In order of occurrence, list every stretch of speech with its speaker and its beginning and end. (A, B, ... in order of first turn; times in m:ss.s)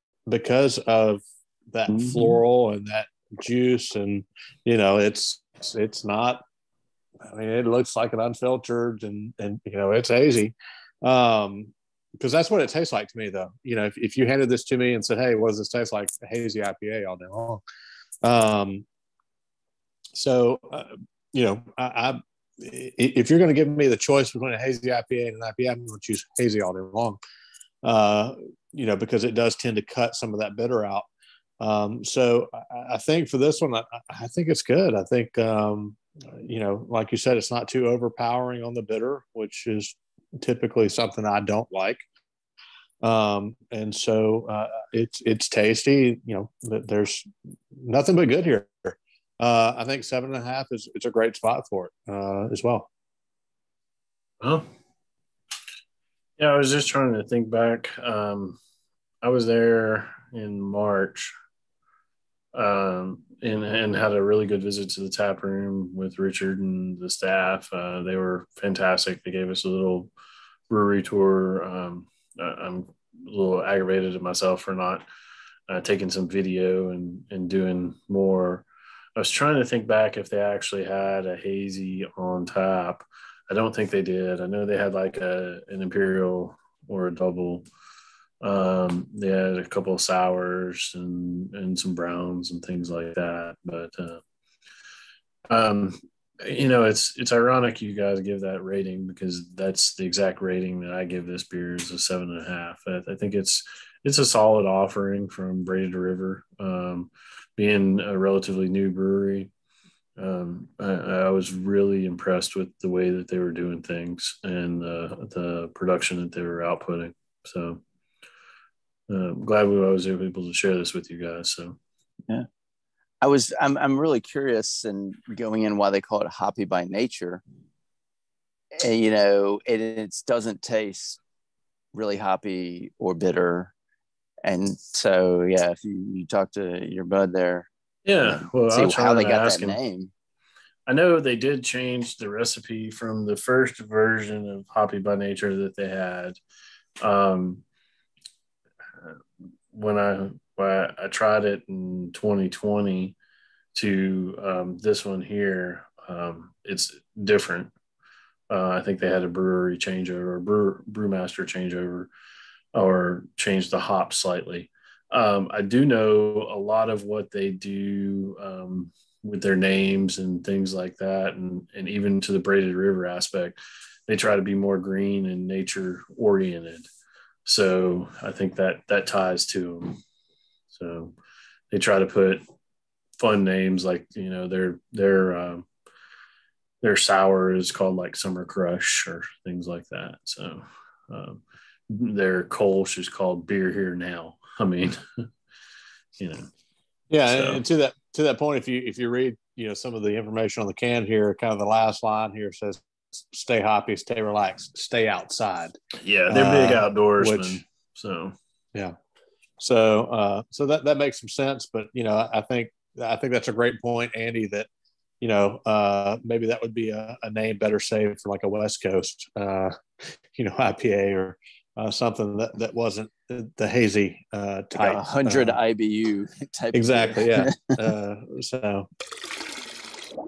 0:00.3-0:06.4 A
0:01.9-0:02.4 B
0:07.2-0:17.6 A
0:18.2-0:18.8 A
0:20.1-0:27.2 A
0:27.8-0:31.1 A
0:31.6-0:42.0 A
0:43.0-0:52.9 A
0:56.4-0:58.6 C
0:59.2-1:01.3 C
1:02.5-1:10.1 C
1:10.7-1:15.0 C
1:15.7-1:27.6 C
1:28.4-1:34.2 C
1:35.5-1:49.5 C
1:50.2-1:57.8 C
1:59.1-2:01.8 C
2:03.2-2:07.4 B
2:08.8-2:11.2 B
2:11.9-2:13.7 B
2:14.4-2:17.7 B
2:18.0-2:19.8 C
2:18.2-2:20.1 B
2:20.9-2:26.4 C
2:27.0-2:27.6 C
2:29.7-2:33.2 C
2:33.7-2:37.7 C
2:38.5-2:42.1 C
2:42.7-2:56.9 C
2:57.4-3:00.0 C
3:00.7-3:01.2 C
3:01.7-3:02.4 C
3:03.2-3:05.7 C
3:06.8-3:15.0 C
3:16.2-3:16.5 C
3:17.1-3:25.7 A
3:17.3-3:17.6 C
3:26.0-3:28.3 C
3:26.3-3:27.6 A
3:29.6-3:34.7 A
3:35.2-3:45.6 A
3:44.8-3:47.6 B
3:46.7-3:48.9 A